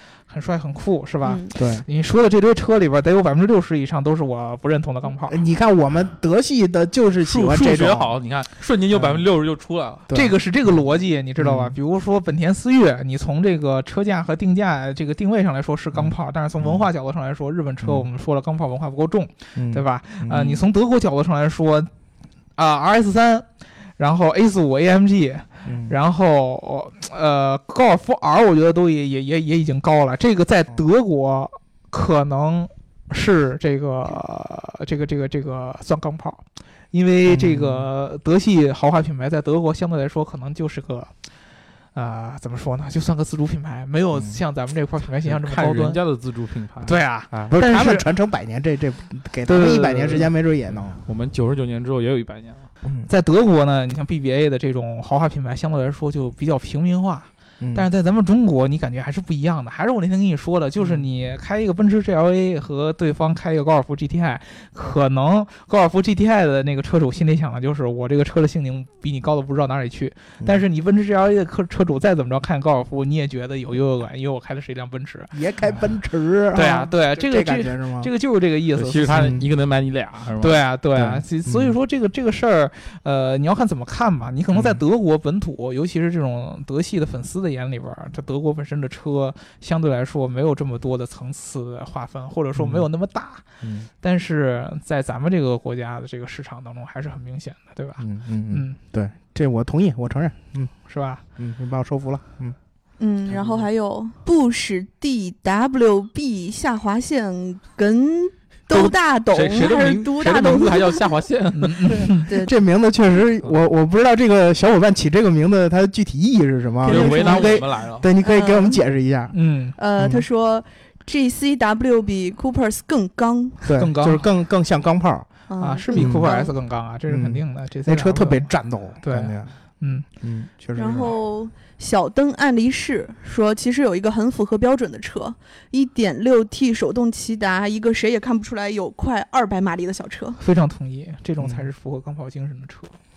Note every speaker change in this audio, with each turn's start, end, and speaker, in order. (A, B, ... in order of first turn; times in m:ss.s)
0:00.3-0:05.4 A
0:01.2-0:01.5 B
0:01.5-0:01.8 C
0:05.2-0:08.2 C
0:07.2-0:10.0 D
0:08.9-0:09.2 C
0:10.1-0:10.8 C
0:10.1-0:21.9 A
0:11.4-0:11.8 C
0:15.9-0:16.8 C
0:19.6-0:20.5 C
0:22.6-0:23.4 A
0:24.0-0:41.1 A
0:25.6-0:25.9 C
0:37.3-0:37.9 C
0:41.9-0:46.0 A
0:45.2-0:47.5 D
0:46.8-0:48.0 A
0:47.5-0:51.0 C
0:49.5-0:50.3 A
0:51.0-0:52.7 D
0:53.1-1:15.3 A
0:57.6-0:57.8 C
1:15.3-1:18.1 C
1:16.5-1:19.4 A
1:18.8-1:20.6 D
1:19.2-1:19.4 C
1:20.4-1:33.4 A
1:21.0-1:21.7 C
1:24.5-1:24.8 C
1:32.6-1:32.8 C
1:33.6-1:33.9 C
1:34.0-1:38.8 A
1:38.0-1:40.7 C
1:40.8-1:41.2 A
1:41.4-1:42.6 C
1:43.0-1:51.2 B
1:48.7-1:52.1 D
1:51.6-1:52.3 A
1:52.2-1:52.5 B
1:52.3-1:59.3 C
1:56.8-1:57.6 B
1:56.8-1:58.1 D
1:58.2-1:58.8 B
1:59.3-1:59.8 A
1:59.8-2:03.6 B
2:00.0-2:00.3 C
2:03.6-2:05.3 C
2:03.8-2:04.3 A
2:05.5-2:06.5 B
2:05.6-2:08.5 A
2:05.9-2:06.3 C
2:07.1-2:09.5 C
2:09.0-2:10.1 A
2:10.2-2:11.2 C
2:10.8-2:20.4 B
2:20.4-2:22.9 A
2:21.4-2:21.6 C